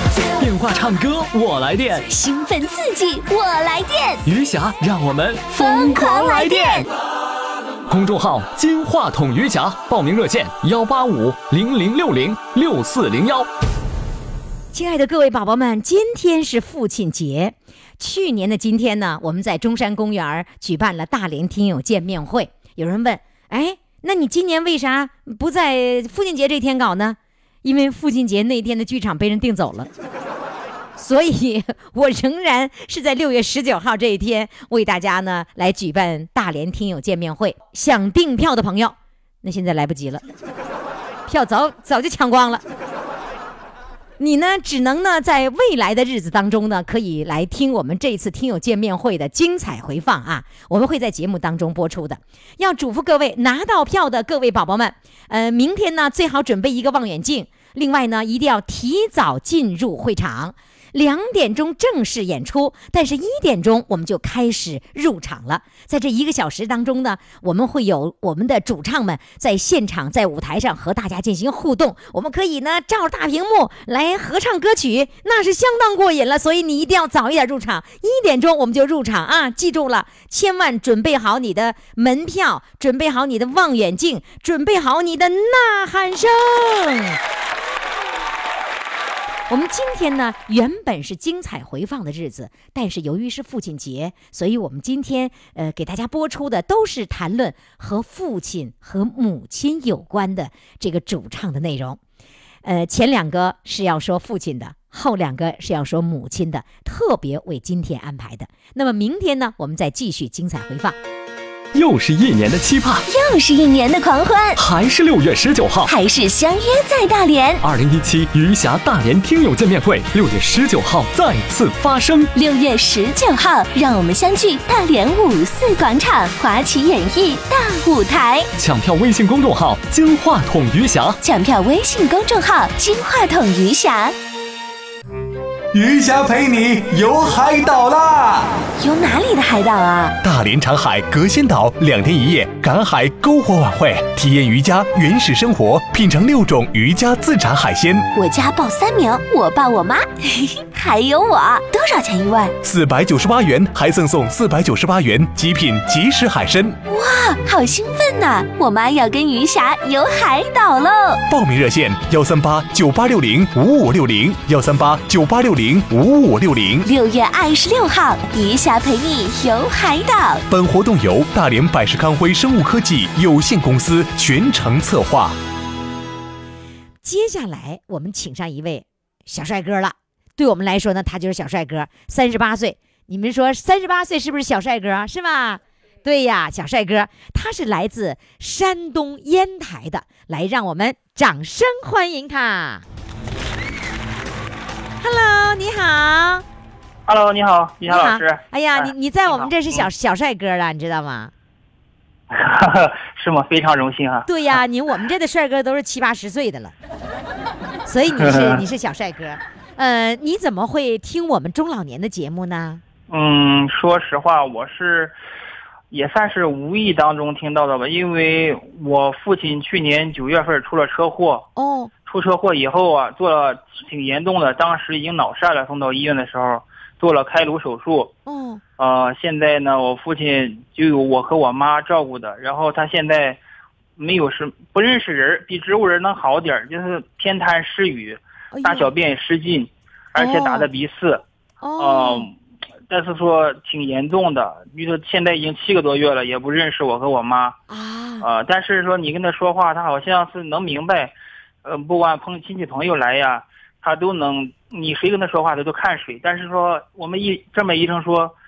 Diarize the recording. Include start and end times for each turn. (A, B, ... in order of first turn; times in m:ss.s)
0:00.4-0:02.1 A
0:02.1-0:04.2 B
0:04.2-0:06.9 A
0:05.6-0:06.9 B
0:07.9-0:13.5 A
0:14.7-0:29.9 C
0:31.0-0:40.2 C
0:41.3-0:42.6 C
0:44.2-1:27.2 C
1:29.5-1:42.0 C
1:42.6-1:51.0 C
1:51.7-1:53.0 A
1:53.0-1:54.6 B
1:54.6-1:55.9 A
1:55.8-1:57.6 B
1:57.6-2:02.3 A
2:02.3-2:08.5 B
2:08.6-2:11.2 A
2:11.2-2:14.1 B
2:15.7-2:18.6 D
2:18.8-2:20.1 B
2:20.2-2:28.1 E
2:28.1-2:32.5 B
2:32.6-2:36.8 E
2:36.9-2:41.2 B
2:41.3-2:46.9 E
2:46.8-2:50.4 B
2:50.5-2:55.4 E
2:57.0-3:12.8 C
3:15.0-3:16.4 C
3:17.1-3:19.9 F
3:17.8-3:21.3 C
3:22.3-3:24.3 F
3:24.2-3:26.7 C
3:27.8-3:32.8 C
3:28.2-3:28.6 F
3:33.1-3:35.1 F
3:35.9-3:41.4 F
3:41.6-3:41.9 C
3:42.1-3:48.1 F
3:48.2-3:48.6 C
3:48.8-3:53.4 F
3:54.0-4:01.2 F
3:58.5-3:58.9 C
4:00.2-4:00.7 C
4:01.6-4:02.3 C
4:01.8-4:02.3 F
4:02.9-4:07.6 F
4:07.7-4:08.2 C
4:08.2-4:18.3 F